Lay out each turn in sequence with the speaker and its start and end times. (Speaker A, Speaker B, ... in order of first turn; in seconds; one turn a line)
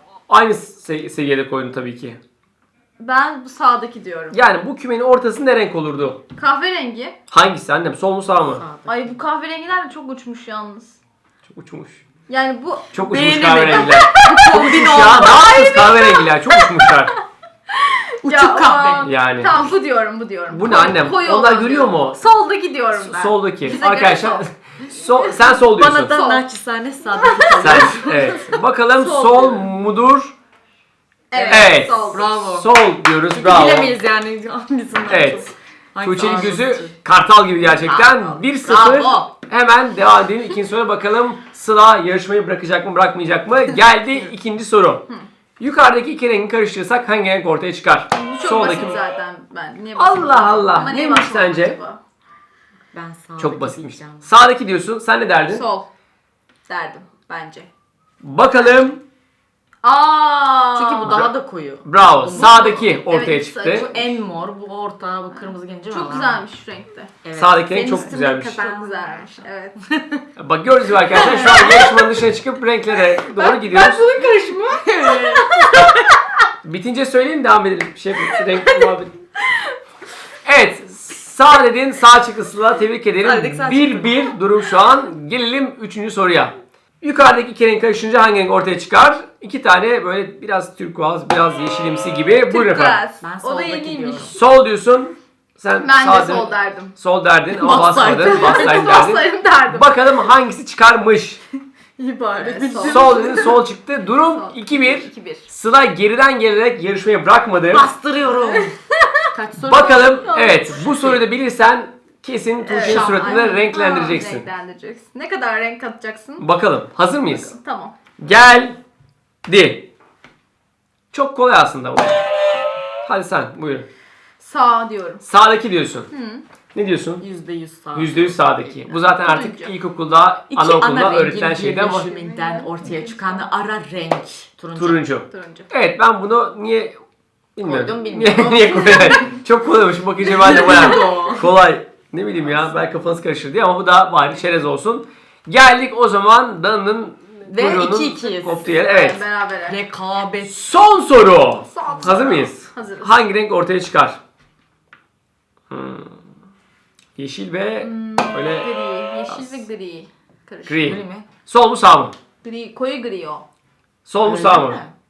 Speaker A: 0.3-2.2
Speaker B: 3.0-4.4
Speaker A: 4.3-6.2
Speaker B: 6.3-7.2
Speaker A: 7.3-8.6
Speaker C: 8.5-9.2
Speaker B: 8.8-11.0
Speaker A: 11.5-12.0
Speaker B: 12.3-12.9
Speaker A: 12.9-17.1
Speaker C: 13.0-15.8
Speaker B: 13.8-17.2
Speaker B: 17.8-26.5
Speaker C: 18.2-19.1
Speaker A: 19.0-19.5
Speaker A: 20.5-22.2
Speaker A: 22.9-26.1
Speaker C: 25.7-28.6
Speaker B: 27.0-27.9
Speaker A: 27.6-30.3
Speaker B: 29.0-29.7
Speaker B: 31.3-32.3
Speaker C: 31.3-32.7
Speaker A: 31.5-33.9
Speaker C: 33.3-37.0
Speaker A: 35.1-45.0
Speaker C: 37.8-39.3
Speaker A: 45.6-49.0
Speaker B: 48.1-52.0
Speaker A: 50.0-51.8
Speaker C: 52.9-54.3
Speaker A: 53.4-55.6
Speaker B: 55.5-55.9
Speaker B: 56.7-57.7
Speaker A: 58.2-59.0
Speaker B: 59.8-61.2
Speaker C: 60.7-62.8
Speaker A: 61.0-61.3
Speaker A: 61.8-63.9
Speaker B: 62.3-64.1
Speaker C: 63.7-66.4
Speaker B: 65.3-67.1
Speaker C: 67.2-69.4
Speaker A: 67.3-68.6
Speaker B: 67.8-69.8
Speaker A: 70.3-74.0
Speaker C: 71.1-72.0
Speaker B: 71.1-72.0
Speaker C: 73.3-76.0
Speaker B: 74.0-75.8
Speaker A: 76.6-79.1
Speaker A: 80.4-93.0
Speaker C: 83.2-84.3
Speaker B: 92.5-94.3
Speaker C: 93.2-94.3
Speaker A: 94.3-101.4
Speaker B: 95.8-96.9
Speaker B: 97.5-100.1
Speaker C: 97.7-98.7
Speaker C: 102.0-103.6
Speaker B: 102.3-103.6
Speaker A: 102.8-107.9
Speaker B: 104.1-105.5
Speaker C: 107.7-108.7
Speaker B: 108.4-109.3
Speaker C: 109.3-111.2
Speaker A: 109.6-114.5
Speaker B: 110.2-110.9
Speaker B: 112.6-116.4
Speaker C: 112.8-113.6
Speaker A: 116.4-117.5
Speaker B: 117.2-117.9
Speaker A: 118.2-118.8
Speaker A: 119.5-119.9
Speaker A: 121.1-122.2
Speaker A: 123.0-123.9
Speaker B: 124.4-125.2
Speaker A: 125.2-126.1
Speaker B: 126.1-126.4
Speaker A: 126.7-127.2
Speaker C: 127.2-128.8
Speaker A: 127.9-132.1
Speaker B: 128.9-129.7
Speaker C: 130.5-135.0
Speaker B: 131.8-133.5
Speaker A: 134.7-137.0
Speaker B: 135.2-135.7
Speaker A: 137.6-149.2
Speaker C: 137.6-139.3
Speaker C: 140.2-141.5
Speaker C: 147.4-148.7
Speaker B: 148.7-149.8
Speaker C: 149.7-150.6
Speaker A: 150.4-154.2
Speaker B: 151.7-153.1
Speaker C: 151.8-152.2
Speaker A: 155.7-156.2
Speaker A: 157.2-158.7
Speaker B: 157.8-161.0
Speaker A: 159.3-159.6
Speaker A: 160.7-162.1
Speaker C: 160.8-161.2
Speaker B: 162.4-163.4
Speaker A: 164.0-164.8
Speaker C: 164.2-164.9